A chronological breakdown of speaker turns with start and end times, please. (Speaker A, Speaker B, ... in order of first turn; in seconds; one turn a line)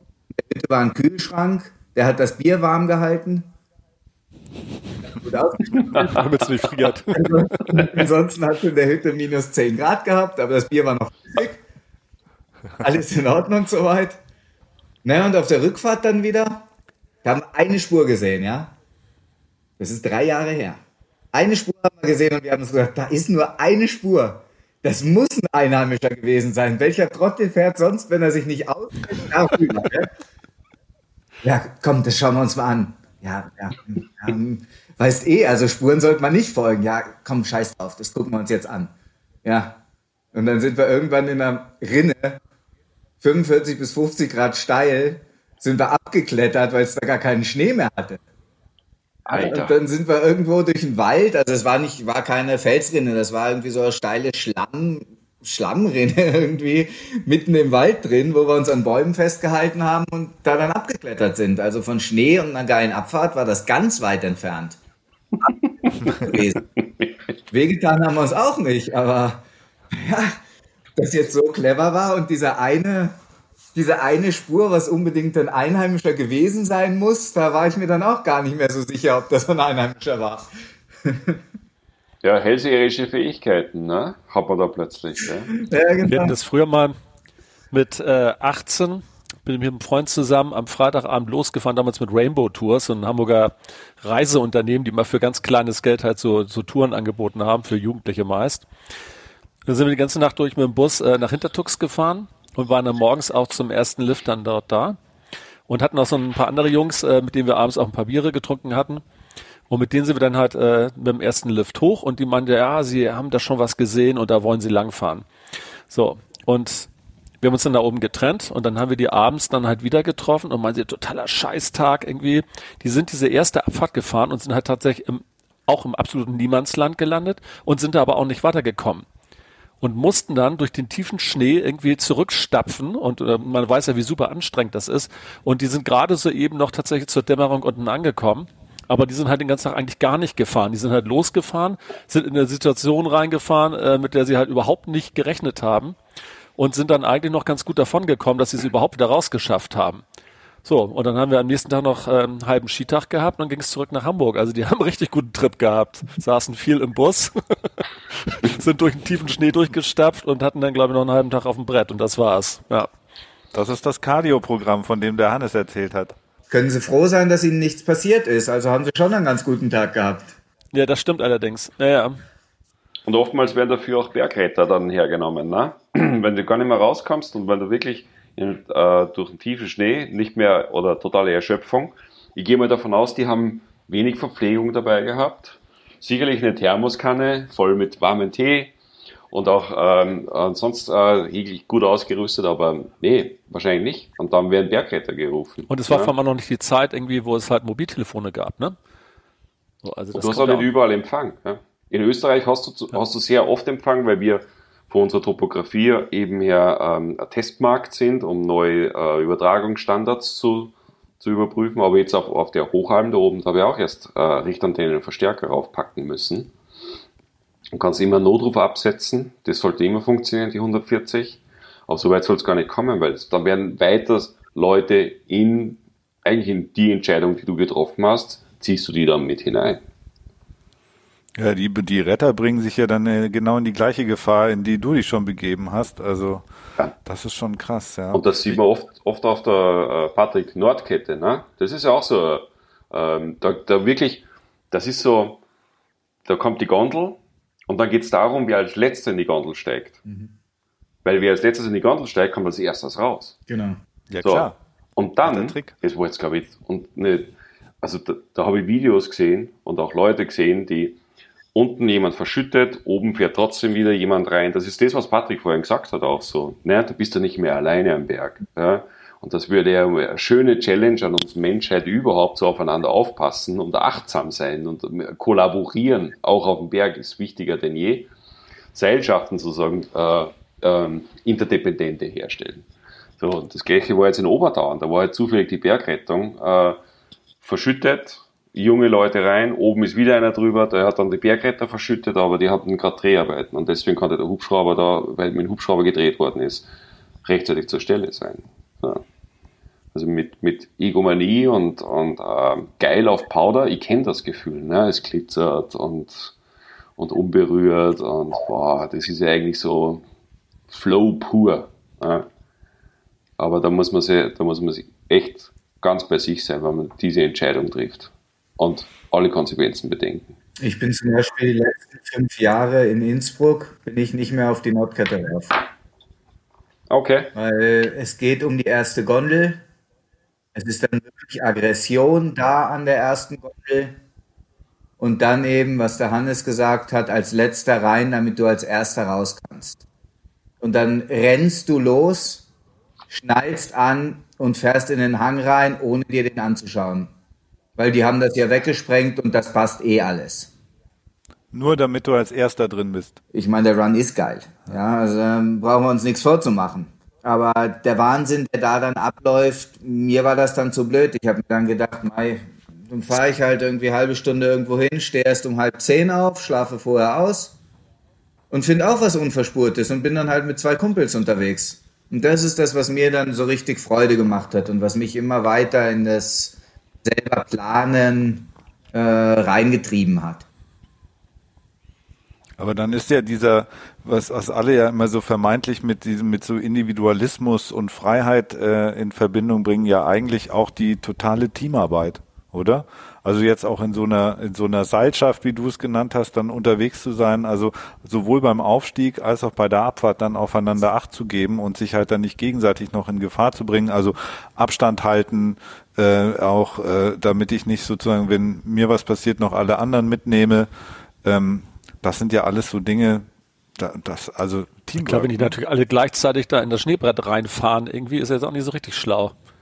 Speaker A: 0.3-3.5
Speaker A: 5.1-6.2
Speaker B: 5.8-6.5
Speaker C: 6.0-8.0
Speaker A: 7.1-11.6
Speaker A: 12.8-14.2
Speaker A: 15.0-16.7
Speaker A: 17.2-18.7
Speaker A: 19.8-20.8
Speaker A: 21.3-30.1
Speaker A: 31.4-38.9
Speaker A: 39.4-39.8
Speaker A: 40.3-42.4
Speaker A: 43.2-48.2
Speaker A: 49.3-64.8
Speaker B: 49.3-49.8
Speaker B: 65.4-67.3
Speaker A: 66.0-66.6
Speaker A: 67.5-70.4
Speaker A: 71.0-73.1
Speaker A: 73.7-80.5
Speaker A: 81.0-81.4
Speaker B: 82.2-85.6
Speaker A: 85.6-86.3
Speaker C: 86.0-87.0
Speaker C: 87.7-98.7
Speaker C: 99.7-105.0
Speaker C: 105.7-109.0
Speaker C: 109.7-115.3
Speaker C: 115.9-116.9
Speaker C: 117.4-129.1
Speaker C: 129.8-146.0
Speaker C: 146.6-150.0
Speaker C: 150.7-157.4
Speaker C: 158.2-162.9
Speaker D: 163.5-166.2
Speaker A: 166.5-170.3
Speaker C: 170.7-172.2
Speaker B: 173.1-188.7
Speaker B: 189.3-196.1
Speaker C: 195.7-198.8
Speaker C: 199.8-200.7
Speaker B: 200.1-216.5
Speaker B: 217.7-229.8
Speaker D: 231.4-236.4
Speaker D: 237.1-238.6
Speaker B: 238.1-245.4
Speaker B: 246.2-250.0
Speaker B: 251.1-253.4
Speaker A: 253.5-253.8
Speaker D: 254.1-254.6
Speaker B: 254.2-261.0
Speaker D: 255.2-255.7
Speaker B: 261.6-278.1
Speaker B: 278.7-282.7
Speaker B: 283.2-286.8
Speaker B: 287.4-296.7
Speaker B: 297.2-299.0
Speaker B: 299.9-306.4
Speaker B: 307.0-310.0
Speaker B: 310.7-312.3
Speaker B: 313.4-320.3
Speaker A: 320.6-325.6
Speaker B: 326.9-327.3
Speaker A: 327.4-329.6
Speaker A: 330.6-334.0
Speaker A: 335.0-339.8
Speaker A: 340.6-342.5
Speaker A: 343.1-347.1
Speaker A: 347.8-350.5
Speaker D: 351.5-353.2
Speaker A: 353.3-367.6
Speaker A: 368.5-380.5
Speaker D: 382.6-410.7
Speaker D: 411.2-413.3
Speaker D: 413.8-415.6
Speaker C: 415.0-419.3